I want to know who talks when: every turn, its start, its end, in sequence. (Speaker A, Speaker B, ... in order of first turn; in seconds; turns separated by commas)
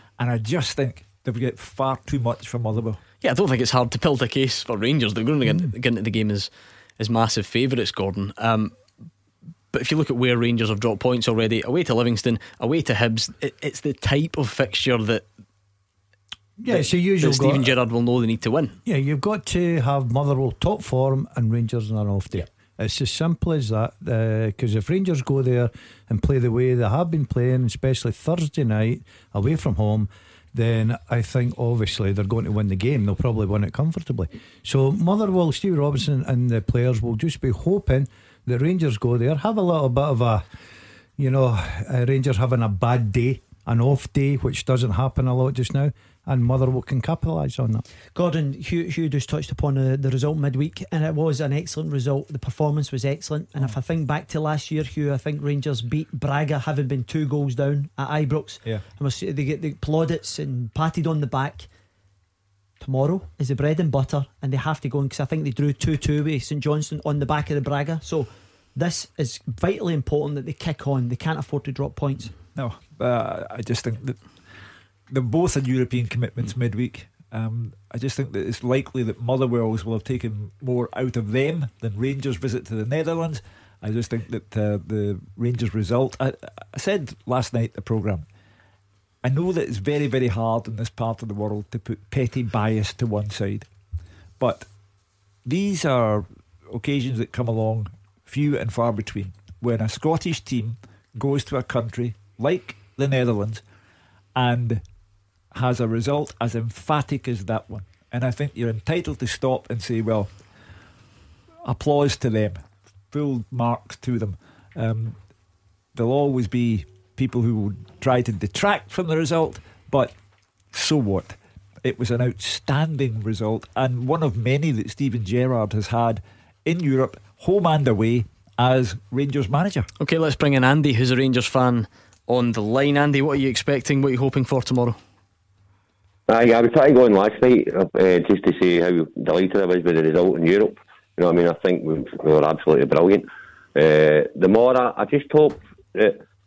Speaker A: 0.2-3.0, Speaker B: 3.2-8.8, Speaker B: 9.7-15.2, Speaker C: 16.6-17.7, Speaker B: 16.7-18.8, Speaker C: 18.9-40.4, Speaker C: 41.2-47.9, Speaker D: 48.1-61.7, Speaker D: 62.8-72.3, Speaker A: 72.5-74.2, Speaker A: 75.1-88.3, Speaker A: 89.2-93.7, Speaker A: 94.4-94.7, Speaker A: 95.5-103.6, Speaker A: 104.4-104.8, Speaker A: 105.5-110.3, Speaker A: 111.7-115.2, Speaker A: 116.0-120.2, Speaker A: 120.7-129.9, Speaker B: 130.0-135.0, Speaker E: 136.3-146.2